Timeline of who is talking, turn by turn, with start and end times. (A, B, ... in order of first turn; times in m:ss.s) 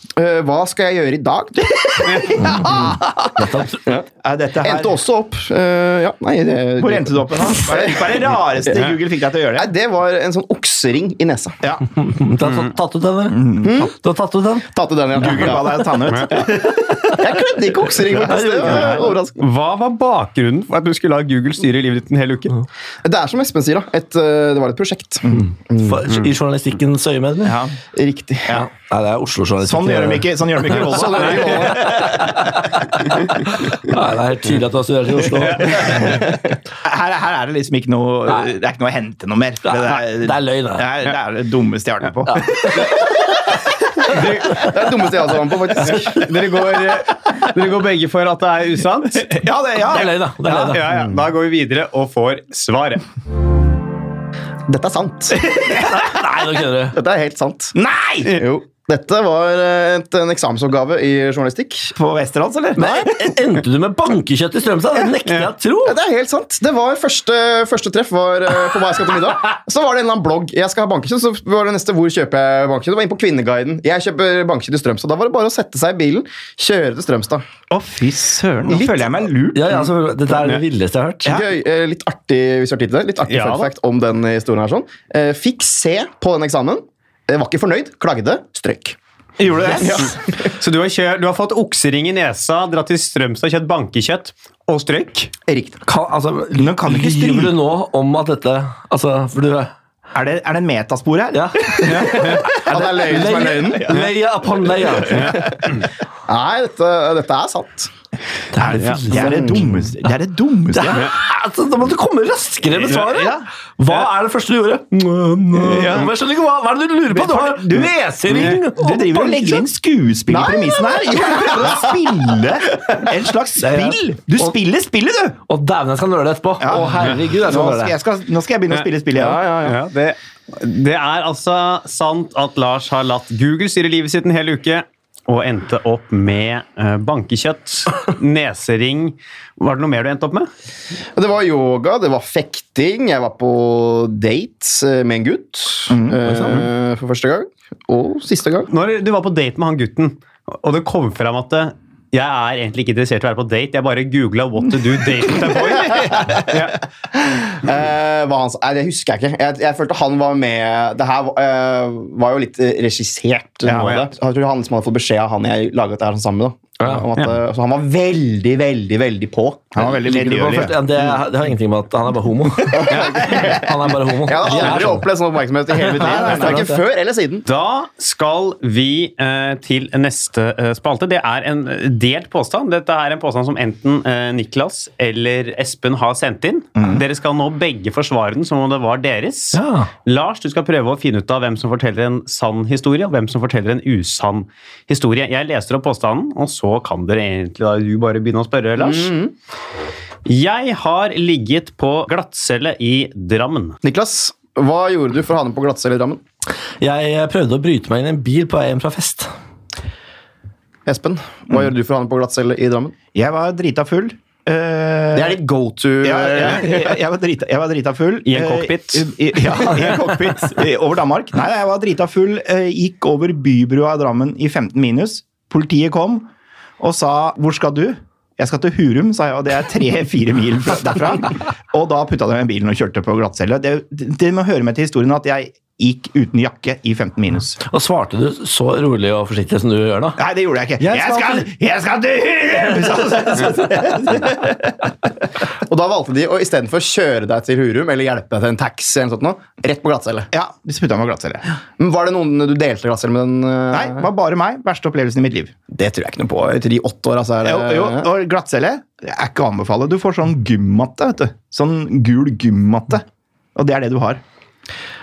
0:00.2-0:03.2 A
0:02.1-0:03.1 B
0:02.4-0:03.8 C
0:04.2-0:05.0 B
0:04.6-0:08.9 A
0:06.8-0:09.7 B
0:09.6-0:11.6 A
0:11.8-0:14.7 C
0:13.3-0:13.9 B
0:13.6-0:13.9 A
0:14.7-0:16.5 A
0:15.1-0:17.4 B
0:17.2-0:19.4 A
0:18.0-0:19.2 C
0:18.0-0:18.9 B
0:18.9-0:22.6 D
0:23.0-0:26.0 A
0:25.3-0:27.6 C
0:27.4-0:27.8 B
0:27.9-0:28.6 A
0:28.5-0:36.2 C
0:29.6-0:32.8 B
0:30.7-0:32.1 A
0:35.6-0:36.2 B
0:36.8-0:43.0 B
0:39.6-0:40.9 C
0:42.3-0:42.8 C
0:44.1-0:44.7 D
0:44.1-0:46.9 A
0:45.8-0:49.4 D
0:49.2-0:50.8 B
0:49.9-0:50.9 C
0:50.0-0:53.0 D
0:50.9-0:51.2 A
0:54.7-0:55.5 A
0:55.3-0:56.3 B
0:55.7-0:57.0 C
0:56.9-0:57.7 A
0:57.7-0:58.4 B
0:58.3-1:01.9 A
1:01.9-1:03.4 B
1:02.8-1:06.0 C
1:05.8-1:17.4 A
1:17.7-1:19.8 B
1:18.6-1:19.2 A
1:19.5-1:21.3 C
1:21.3-1:29.0 A
1:23.2-1:23.7 D
1:29.4-1:30.2 B
1:29.7-1:30.5 A
1:30.6-1:35.3 D
1:35.5-1:35.8 A
1:35.8-1:39.7 C
1:36.5-1:37.5 B
1:40.1-1:44.0 B
1:41.3-1:45.6 C
1:41.9-1:42.4 D
1:42.4-1:44.0 A
1:44.8-1:45.7 B
1:45.1-1:45.4 D
1:46.3-1:47.9 A
1:48.5-1:49.7 C
1:48.6-1:51.1 B
1:48.7-1:49.0 D
1:49.1-1:49.8 A
1:50.7-1:59.6 C
1:52.9-1:53.4 B
1:55.5-1:56.1 B
1:57.1-2:05.4 B
1:58.3-1:58.6 D
2:00.3-2:02.0 A
2:03.6-2:04.5 C
2:05.5-2:07.9 C
2:06.6-2:09.4 B
2:09.1-2:09.8 A
2:09.6-2:20.5 D
2:21.1-2:28.7 A
2:25.9-2:26.2 B
2:26.2-2:26.6 C
2:28.7-2:36.8 D
2:35.9-2:36.4 B
2:37.1-2:49.8 A
2:43.6-2:44.0 B
2:43.7-2:44.0 D
2:49.7-2:51.1 B
2:50.0-2:55.1 C
2:52.7-2:57.4 A
2:55.9-2:56.8 C
2:55.9-2:56.7 B
2:57.4-3:19.1 D
3:06.8-3:07.0 B
3:09.5-3:09.9 C
3:18.8-3:19.3 A
3:20.2-3:23.8 D
3:23.8-3:26.2 A
3:26.8-3:29.3 C
3:30.8-3:32.9 A
3:33.1-3:35.4 B
3:35.1-3:36.9 A
3:36.0-3:46.3 B
3:38.2-3:39.1 D
3:46.8-3:57.6 B
3:57.6-4:00.2 C
4:00.2-4:05.1 B
4:00.8-4:01.4 C
4:05.6-4:10.3 A
4:10.3-4:11.4 B
4:11.8-4:14.1 A
4:13.7-4:15.5 B
4:15.7-4:18.1 A
4:17.4-4:24.2 B